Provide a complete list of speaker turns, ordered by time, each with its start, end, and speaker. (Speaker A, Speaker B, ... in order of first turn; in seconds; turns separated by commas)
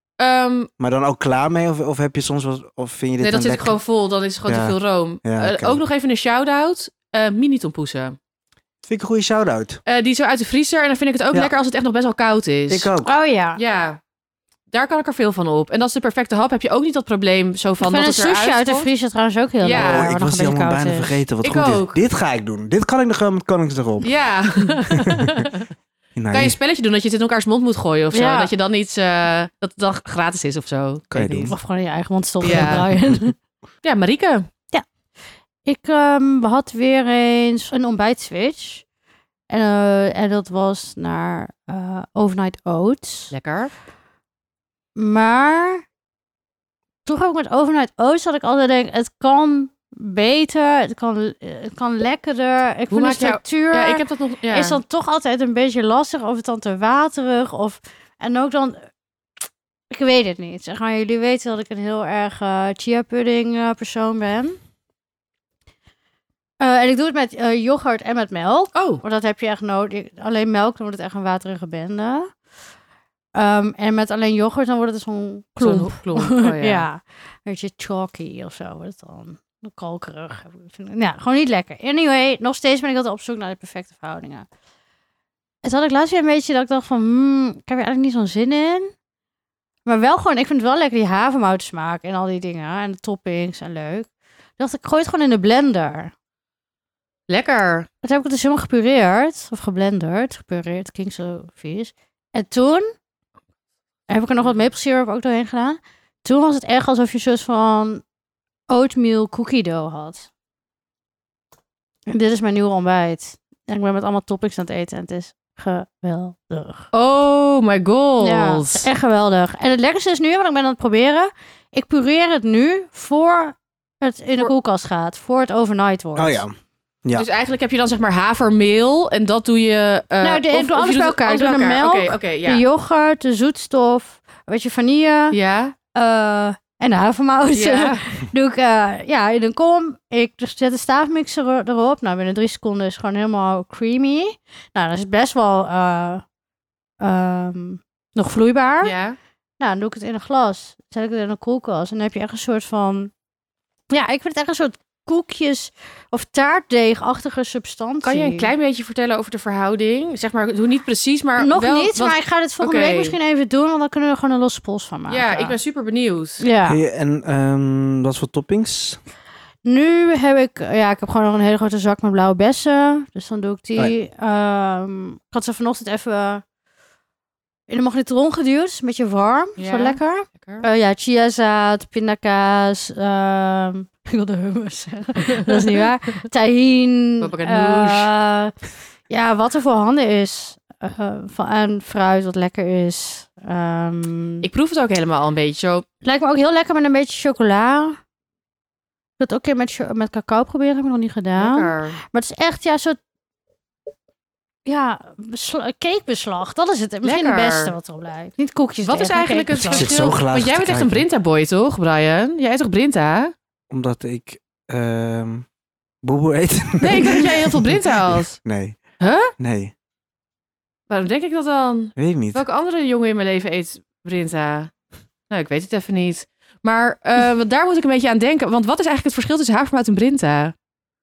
Speaker A: 0.2-0.7, Speaker B: 0.8-3.8, Speaker A: 3.2-8.2, Speaker B: 4.5-5.8, Speaker B: 8.8-9.8, Speaker A: 9.9-12.9, Speaker B: 12.7-13.1, Speaker C: 13.0-13.6, Speaker A: 13.6-14.0, Speaker A: 14.7-18.9, Speaker C: 17.8-21.2, Speaker A: 19.6-20.1, Speaker B: 19.7-24.1, Speaker A: 21.4-22.0, Speaker A: 24.0-25.7, Speaker B: 24.9-25.5, Speaker B: 26.2-26.6, Speaker A: 26.3-31.5, Speaker C: 28.1-28.5, Speaker B: 31.1-31.6, Speaker C: 31.5-33.4, Speaker A: 32.4-32.9, Speaker B: 32.5-32.9, Speaker A: 33.8-34.5, Speaker C: 35.6-38.9, Speaker C: 39.5-43.3, Speaker A: 43.3-43.7, Speaker C: 45.0-45.8, Speaker C: 47.0-58.9, Speaker A: 52.9-54.8, Speaker C: 59.9-64.6, Speaker C: 66.6-72.3, Speaker A: 68.8-69.0, Speaker C: 73.3-84.5, Speaker A: 75.6-76.9, Speaker C: 85.6-88.9, Speaker C: 89.8-96.1, Speaker A: 97.3-97.9, Speaker C: 98.0-102.9, Speaker C: 104.1-108.0, Speaker C: 108.7-110.3, Speaker C: 112.1-116.9, Speaker A: 116.9-118.9, Speaker C: 118.2-126.4, Speaker B: 126.2-126.5, Speaker A: 127.2-132.6, Speaker C: 130.2-135.4, Speaker A: 135.3-135.8, Speaker C: 135.9-146.2, Speaker A: 137.6-138.0, Speaker C: 147.0-149.0, Speaker A: 148.8-149.2, Speaker C: 149.6-153.1, Speaker C: 153.9-158.5, Speaker A: 158.0-163.2, Speaker C: 161.4-165.6, Speaker A: 165.1-166.4, Speaker C: 166.4-166.8, Speaker B: 166.7-169.0, Speaker C: 169.6-176.4, Speaker C: 177.7-188.5, Speaker A: 179.6-180.7, Speaker A: 185.4-185.8, Speaker A: 187.2-188.1, Speaker C: 189.1-194.5, Speaker A: 194.4-195.8, Speaker C: 196.0-198.0, Speaker C: 199.2-203.0, Speaker A: 201.4-202.0, Speaker C: 204.7-210.1, Speaker A: 207.0-207.7, Speaker A: 208.8-213.3, Speaker B: 209.7-211.1, Speaker B: 213.7-215.5, Speaker B: 216.0-218.8, Speaker A: 216.8-218.4, Speaker A: 219.0-219.3, Speaker B: 219.4-219.7, Speaker A: 220.9-224.7, Speaker B: 222.0-222.4, Speaker A: 225.3-230.5